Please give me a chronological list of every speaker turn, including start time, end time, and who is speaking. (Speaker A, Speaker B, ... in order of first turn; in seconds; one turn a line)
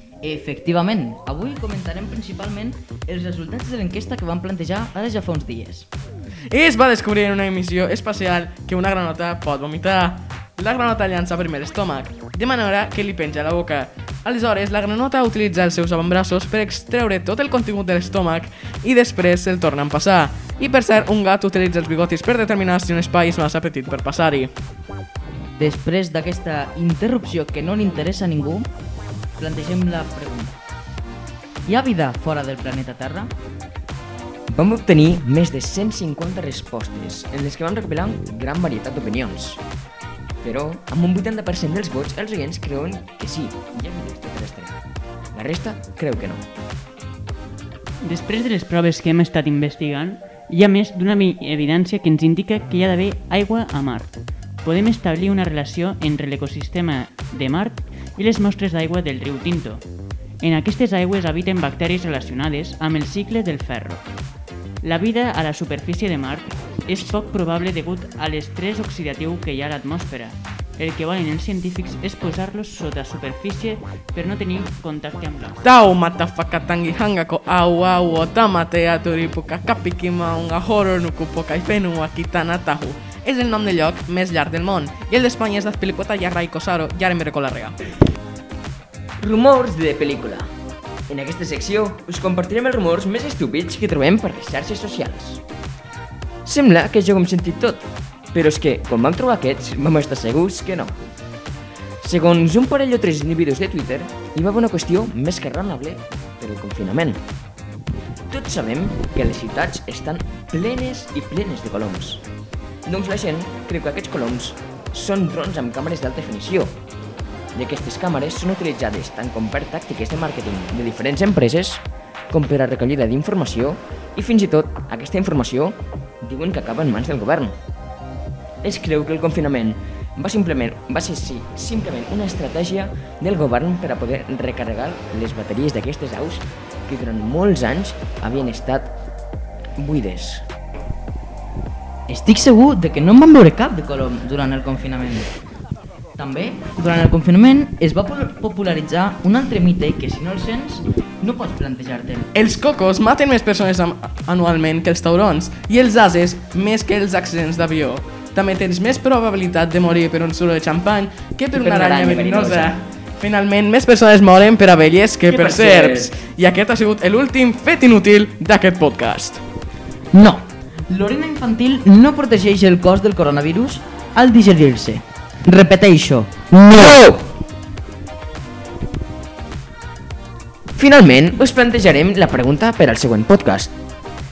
Speaker A: 0.2-5.9
Speaker B: 6.5-24.5
Speaker A: 25.6-28.7
Speaker A: 29.4-30.6
Speaker A: 31.7-33.3
Speaker C: 34.5-39.6
Speaker C: 40.4-44.8
Speaker C: 45.3-46.5
Speaker D: 48.0-59.8
Speaker D: 60.4-64.0
Speaker D: 64.8-75.6
Speaker B: 75.6-87.8
Speaker C: 89.2-90.5
Speaker C: 91.1-95.4
Speaker C: 96.5-101.0
Speaker C: 102.0-107.2
Speaker C: 108.3-112.2
Speaker C: 112.9-116.7
Speaker C: 117.5-127.5
Speaker C: 128.6-139.0
Speaker C: 139.8-140.5
Speaker A: 142.1-145.3
Speaker A: 146.2-152.3
Speaker B: 152.3-169.4
Speaker C: 161.5-162.7
Speaker C: 165.3-166.2
Speaker A: 170.1-176.3
Speaker C: 176.5-177.2
Speaker C: 180.8-183.7